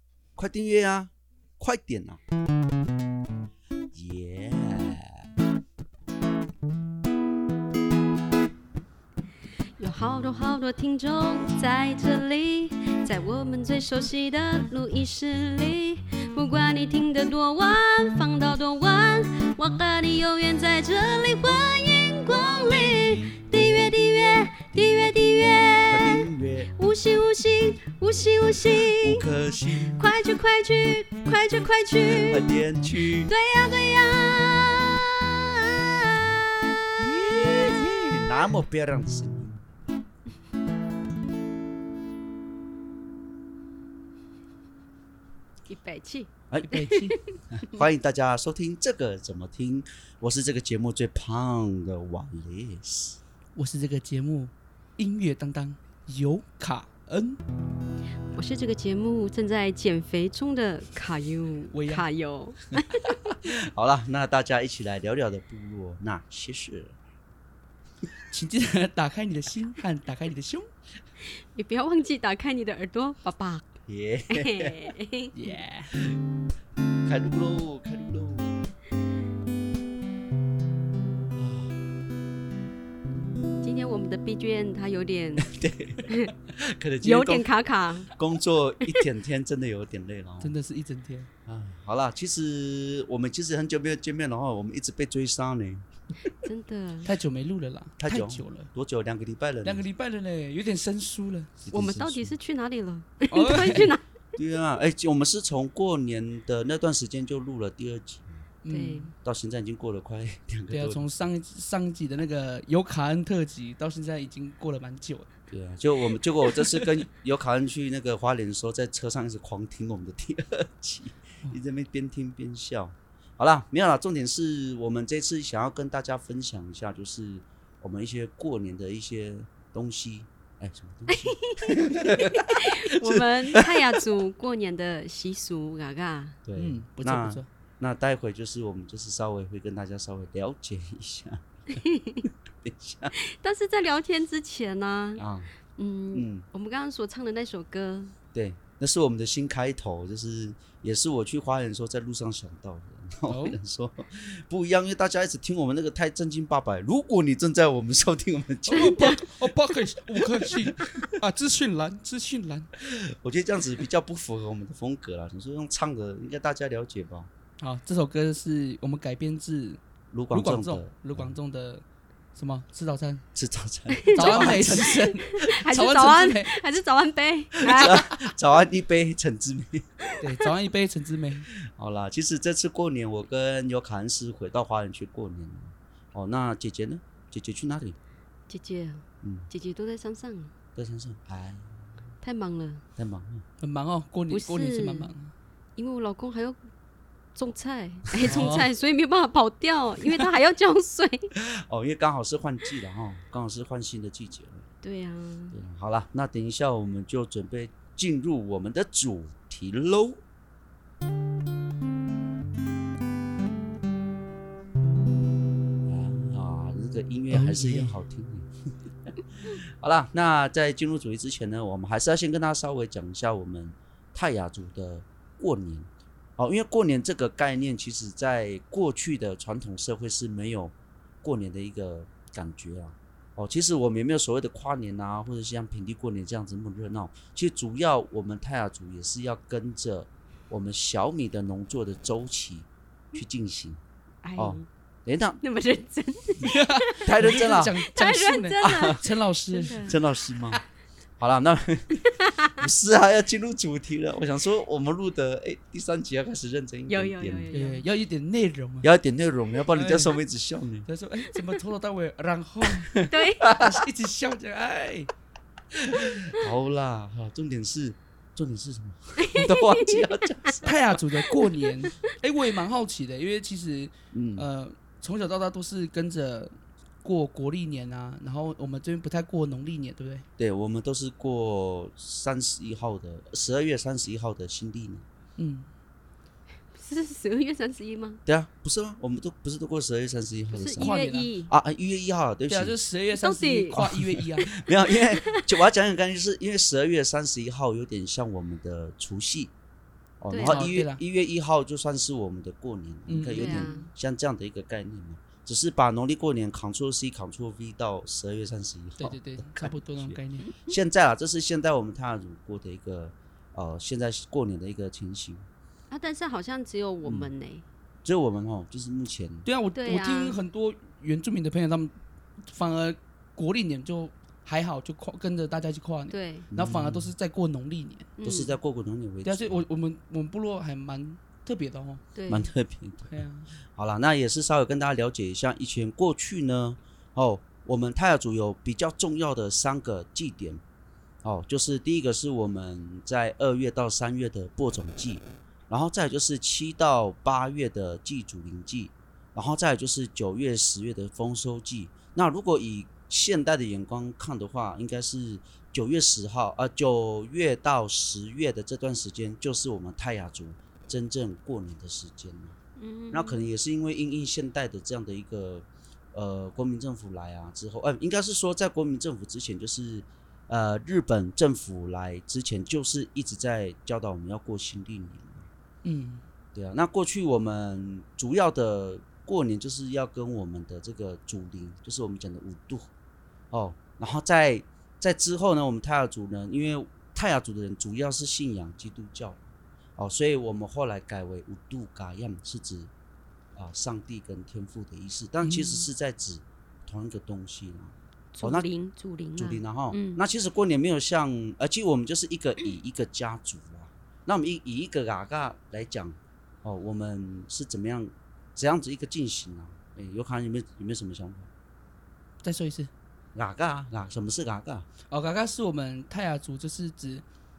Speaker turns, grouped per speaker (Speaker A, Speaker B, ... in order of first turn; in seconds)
Speaker A: 0.4-2.2, 3.9-5.3, 25.9-26.7, 28.9-30.1, 32.0-33.3, 37.0-39.6, 46.5-46.8, 47.5-53.2, 63.3-67.0, 73.8-74.9, 77.0-78.6, 81.4-81.7, 85.4-87.5, 88.1-90.5, 91.5-95.8, 98.0-99.8, 101.6-102.4, 104.3-108.5, 109.2-111.1, 115.5-134.0, 136.4-141.4, 142.2-143.1, 145.2-145.5, 146.1-146.4, 148.3-159.2, 160.2-161.0, 162.8-167.3, 170.1-171.3, 173.3-174.9, 177.6-179.8, 181.6-187.9, 189.2-189.5, 190.8-191.7, 193.0-193.4, 198.2-198.5, 201.4-204.7, 205.5-210.2, 215.8-218.5, 219.1-243.8, 244.3-245.4, 247.0-247.8, 248.6-249.0, 249.8-250.6, 251.2-257.5, 258.8-260.9, 262.9-263.7, 265.7-270.7, 274.1-274.4, 280.4-285.1, 288.2-292.8, 293.7-299.5, 300.2-315.5, 317.0-317.3, 318.0-319.5, 326.5-327.1, 328.2-329.6, 332.3-333.2, 333.7-340.6, 341.2-362.6, 363.1-375.5, 376.5-382.9, 383.5-389.4, 390.0-392.9, 393.5-398.7, 399.4-411.5, 413.3-414.9
Speaker B: 9.8-29.3, 29.8-32.6, 33.2-37.9, 45.7-47.8, 58.3-63.2, 71.2-73.6, 74.3-75.3, 83.6-85.5, 86.1-86.3, 87.0-88.1, 96.4-97.1, 101.7-104.0, 108.7-109.1, 131.1-136.4, 141.7-142.2, 143.2-145.2, 145.8-148.1, 158.7-159.2, 173.9-178.0, 188.5-190.5, 192.2-192.8, 194.3-195.1, 195.8-196.6, 197.3-201.3, 204.8-205.6, 244.2-244.7, 245.4-250.0, 252.0-252.6, 256.9-257.8, 261.3-261.6, 263.1-263.4, 269.2-270.5, 286.7-288.2, 290.5-291.5, 293.1-293.8, 294.4-295.4, 300.3-300.7, 303.4-303.9, 310.4-310.7, 315.9-317.6, 319.7-320.4, 326.1-326.5, 328.2-328.6, 332.1-332.5, 362.8-363.4, 398.3-400.2
Speaker C: 46.7-47.1, 53.5-57.4, 61.7-62.0, 68.3-70.7, 75.3-75.9, 90.4-91.3, 97.0-98.7, 99.6-101.6, 103.3-103.9, 108.6-109.1, 110.7-115.3, 136.6-137.5, 153.3-153.6, 158.7-162.7, 167.6-169.8, 170.3-171.8, 172.3-173.2, 174.1-176.6, 177.8-178.1, 180.2-181.5, 193.6-195.3, 198.2-198.7, 217.3-217.9, 246.4-249.9, 257.5-258.9, 259.7-260.1, 260.9-262.9, 263.5-265.1, 270.6-280.2, 285.4-285.7, 290.8-291.3, 292.5-294.5, 300.4-301.0, 303.1-303.8, 309.0-310.5, 319.4-328.1, 329.2-332.0, 333.1-333.5, 375.8-376.2, 395.4-395.9, 412.4-412.9, 415.1-417.2